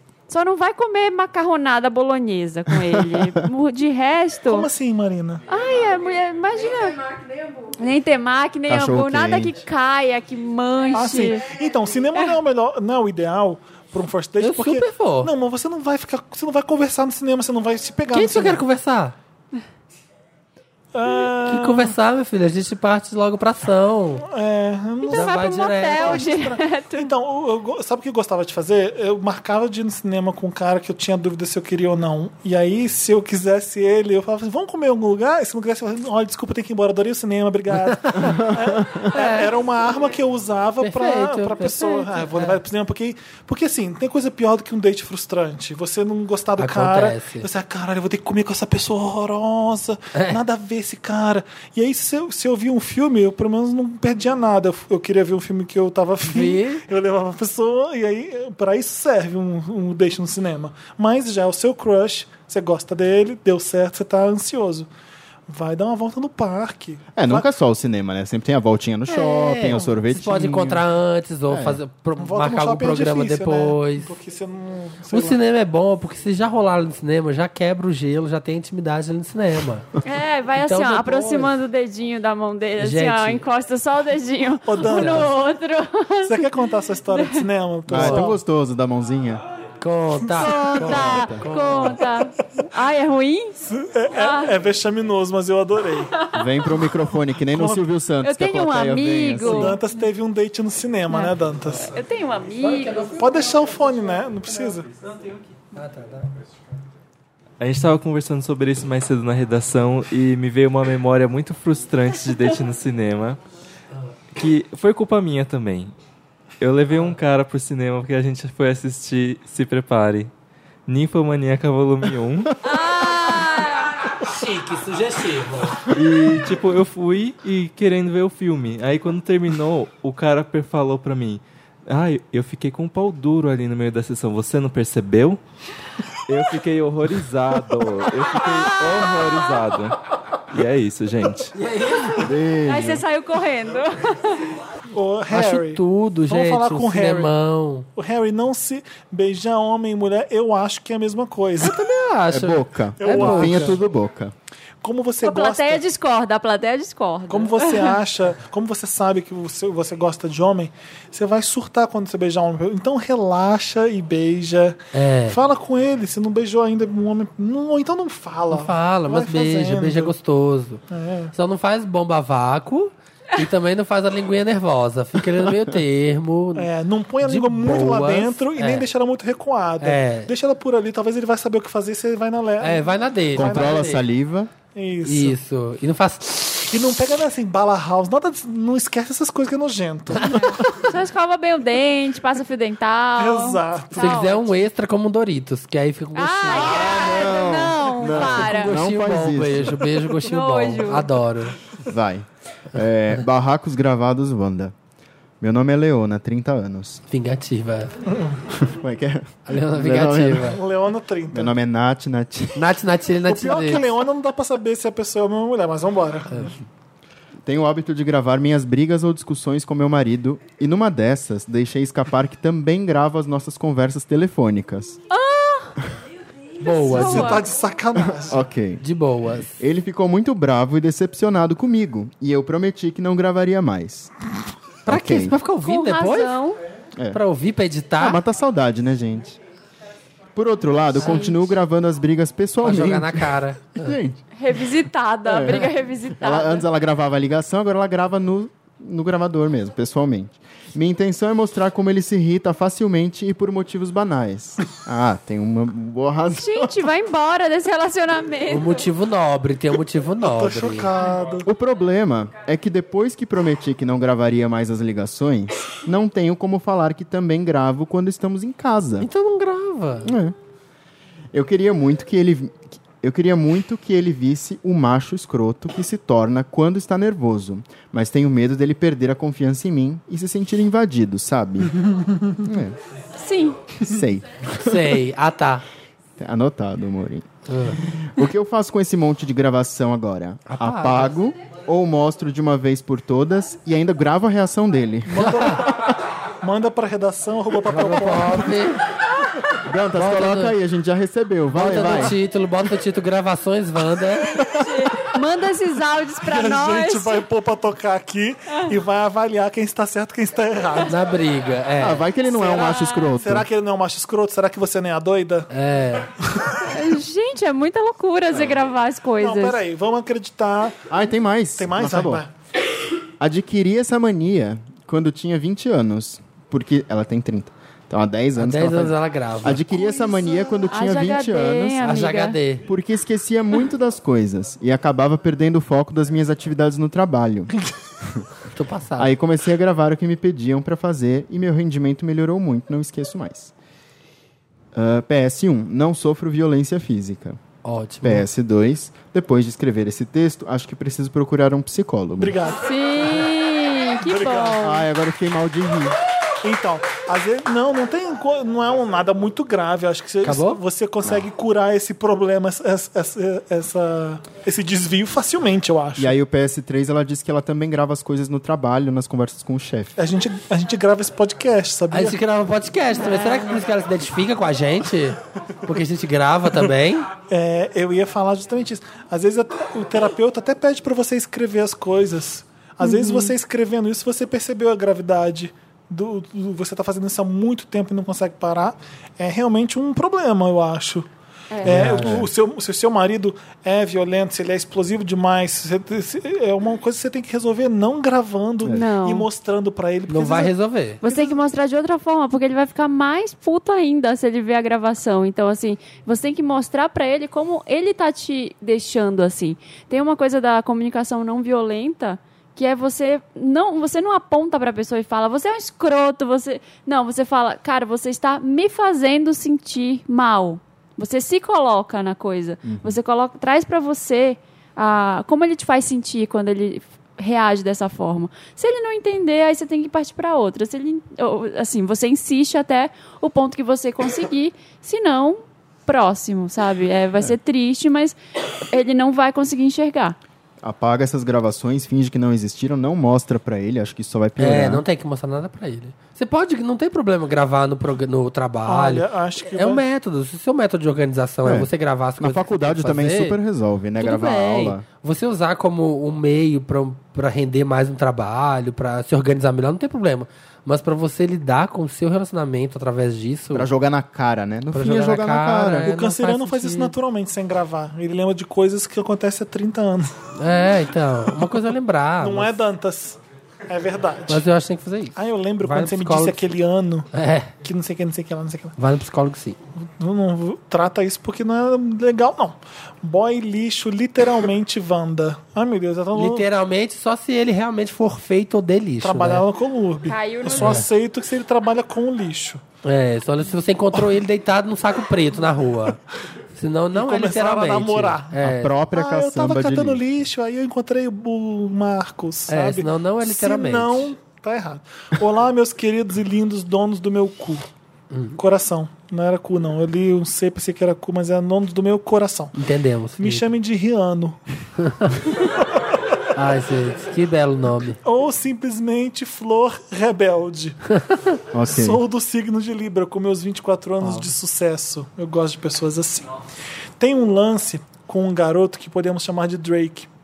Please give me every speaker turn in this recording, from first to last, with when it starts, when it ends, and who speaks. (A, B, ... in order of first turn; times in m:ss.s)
0:00.3-0:04.7 A
0:04.5-0:05.4 B
0:05.5-0:11.4 A
0:08.7-0:09.6 C
0:10.9-0:18.6 B
0:14.4-0:15.3 D
0:18.1-0:19.2 D
0:20.9-0:22.0 B
0:21.5-0:24.3 D
0:24.3-1:04.9 B
0:25.1-0:27.1 A
0:25.1-0:26.3 D
0:37.7-0:38.4 D
0:38.2-0:39.1 C
0:39.1-0:39.5 D
0:40.8-0:42.6 D
0:46.6-0:47.5 D
0:50.1-0:50.4 D
0:56.3-0:56.8 D
1:05.5-1:07.5 B
1:07.2-1:10.8 C
1:09.1-1:14.1 D
1:11.5-1:11.8 C
1:12.2-1:15.4 B
1:15.1-1:19.9 D
1:20.0-1:26.5 A
1:20.6-1:21.5 D
1:22.8-1:23.4 D
1:24.6-1:25.3 B
1:24.8-1:25.3 D
1:26.2-1:28.4 B
1:27.1-1:27.4 A
1:27.9-1:28.3 D
1:27.9-1:29.4 C
1:29.8-1:32.0 D
1:30.3-1:30.8 B
1:30.4-1:33.6 A
1:30.7-1:31.4 C
1:33.6-1:36.2 B
1:34.2-1:34.5 A
1:36.3-1:39.7 C
1:37.4-1:37.8 B
1:38.2-1:39.8 A
1:39.4-1:41.9 B
1:41.1-1:43.1 A
1:42.6-1:43.7 D
1:43.2-1:44.9 B
1:45.7-1:46.3 D
1:47.6-1:53.4 E
1:54.3-1:56.0 E
1:56.6-2:00.3 E
2:00.9-2:02.5 E
2:02.6-2:04.0 A
2:04.3-2:05.9 D
2:05.9-2:15.4 E
2:16.3-2:20.0 E
2:18.5-2:19.4 A
2:20.5-2:21.5 E
2:21.6-2:22.3 D
2:22.2-2:23.0 C
2:22.7-2:24.5 A
2:24.9-2:27.3 B
2:25.3-2:27.9 D
2:28.0-2:31.8 B
2:31.6-2:33.8 D
2:32.3-2:34.3 C
2:33.0-2:33.8 B
2:34.8-2:35.8 B
2:35.2-2:38.0 A
2:37.3-2:50.1 B
2:44.9-2:45.4 D
2:48.5-2:50.8 D
2:50.9-2:51.3 B
2:51.3-2:56.7 D
2:56.6-3:04.0 B
2:57.2-2:58.9 D
2:59.8-3:00.3 D
3:02.6-3:04.0 D
3:03.3-3:04.5 C
3:04.7-3:05.4 B
3:05.0-3:06.7 D
3:06.7-3:10.6 B
3:10.2-3:14.5 A
3:13.2-3:14.2 B
3:13.9-3:16.8 D
3:16.2-3:18.7 A
3:16.5-3:19.9 C
3:18.1-3:21.6 D
3:20.2-3:21.1 A
3:21.8-3:24.7 C
3:25.4-3:27.0 C
3:27.1-3:27.9 D
3:28.1-3:28.4 B
3:28.6-3:30.6 C
3:29.5-3:30.6 D
3:30.4-3:31.6 B
3:31.3-3:32.7 C
3:32.6-3:33.8 D
3:33.3-3:36.5 B
3:37.4-3:45.0 C
3:45.1-3:45.8 A
3:46.6-3:47.5 D
3:46.6-3:47.4 A
3:46.9-3:48.4 B
3:48.0-3:48.8 C
3:48.8-3:49.6 D
3:49.6-3:54.1 C
3:54.9-3:55.4 C
3:54.9-3:56.4 D
3:55.6-3:56.6 A
3:57.1-3:58.2 D
3:58.0-3:59.4 C
4:00.4-4:04.2 C
4:01.0-4:01.4 D
4:01.0-4:01.3 A
4:02.6-4:04.0 D
4:04.4-4:06.6 A
4:05.3-4:16.8 C
4:16.4-4:18.8 A
4:18.5-4:20.9 D
4:20.2-4:21.5 B
4:21.4-4:29.1 C
4:29.0-4:30.1 D
4:30.0-4:30.4 C
4:31.3-4:41.8 C
4:42.4-4:42.8 C
4:43.2-4:43.6 A
4:43.8-4:45.0 C
4:44.6-4:45.6 D
4:46.2-4:55.9 C
4:47.5-4:47.8 D
4:50.5-4:51.2 D
4:55.1-4:55.8 B
4:55.3-4:55.6 D
4:56.4-4:58.7 B
4:57.7-4:58.8 D
4:59.6-5:02.2 C
5:00.0-5:00.6 D
5:01.5-5:04.4 D
5:04.4-5:07.2 A
5:06.2-5:11.0 B
5:08.5-5:08.7 A
5:10.9-5:12.1 D
5:11.8-5:13.5 C
5:12.3-5:15.5 B
5:12.4-5:13.1 A
5:15.5-5:16.1 D
5:16.6-5:19.6 A
5:19.2-5:20.8 B
5:20.9-5:22.2 C
5:21.6-5:22.3 B
5:23.2-5:31.9 C
5:28.4-5:29.6 D
5:29.9-5:32.4 A
5:31.8-5:32.7 D
5:32.7-5:38.3 C
5:38.5-5:39.1 D
5:39.0-5:43.5 C
5:44.7-5:47.4 C
5:47.6-5:48.3 D
5:48.0-5:52.4 C
5:52.2-5:53.2 B
5:52.5-5:54.8 A
5:54.0-5:54.6 B
5:54.6-5:56.0 C
5:56.4-6:06.1 B
6:00.2-6:00.6 D
6:06.0-6:10.0 C
6:10.0-6:12.2 B
6:11.9-6:17.1 D
6:13.0-6:13.6 A
6:17.3-6:31.1 B
6:22.8-6:23.3 A
6:31.5-6:31.9 A
6:31.6-6:40.5 B
6:31.6-6:32.3 D
6:31.9-6:32.3 C
6:38.7-6:39.3 A
6:40.1-6:41.0 D
6:41.0-7:18.2 A
6:41.0-6:41.4 B
7:02.6-7:03.0 C
7:18.7-7:20.2 A
7:20.6-7:24.8 C
7:24.4-7:33.4 D
7:28.7-7:29.8 B
7:31.4-7:34.8 C
7:34.0-7:43.7 D
7:43.5-7:45.9 C
7:44.7-7:47.0 D
7:45.8-7:50.2 B
7:50.4-7:52.6 D
7:52.2-7:54.4 B
7:54.3-7:56.4 D
7:55.2-7:57.1 B
7:57.1-7:57.6 D
7:57.6-7:58.7 B
7:58.8-7:59.6 D
8:00.0-8:06.5 B
8:06.1-8:09.4 D
8:09.0-8:12.6 B
8:10.1-8:10.9 A
8:10.6-8:10.9 D
8:12.8-8:16.0 D
8:16.6-8:18.8 D
8:16.9-8:18.4 B
8:18.4-8:20.0 C
8:18.9-8:27.7 B
8:22.5-8:24.1 D
8:28.1-8:28.4 D
8:28.4-8:32.6 B
8:32.6-8:33.5 D
8:33.2-8:34.4 B
8:34.8-8:35.1 D
8:36.4-8:38.0 D
8:38.0-8:40.8 B
8:41.5-8:42.0 C
8:41.7-8:46.3 B
8:44.0-8:44.3 D
8:47.0-8:50.1 B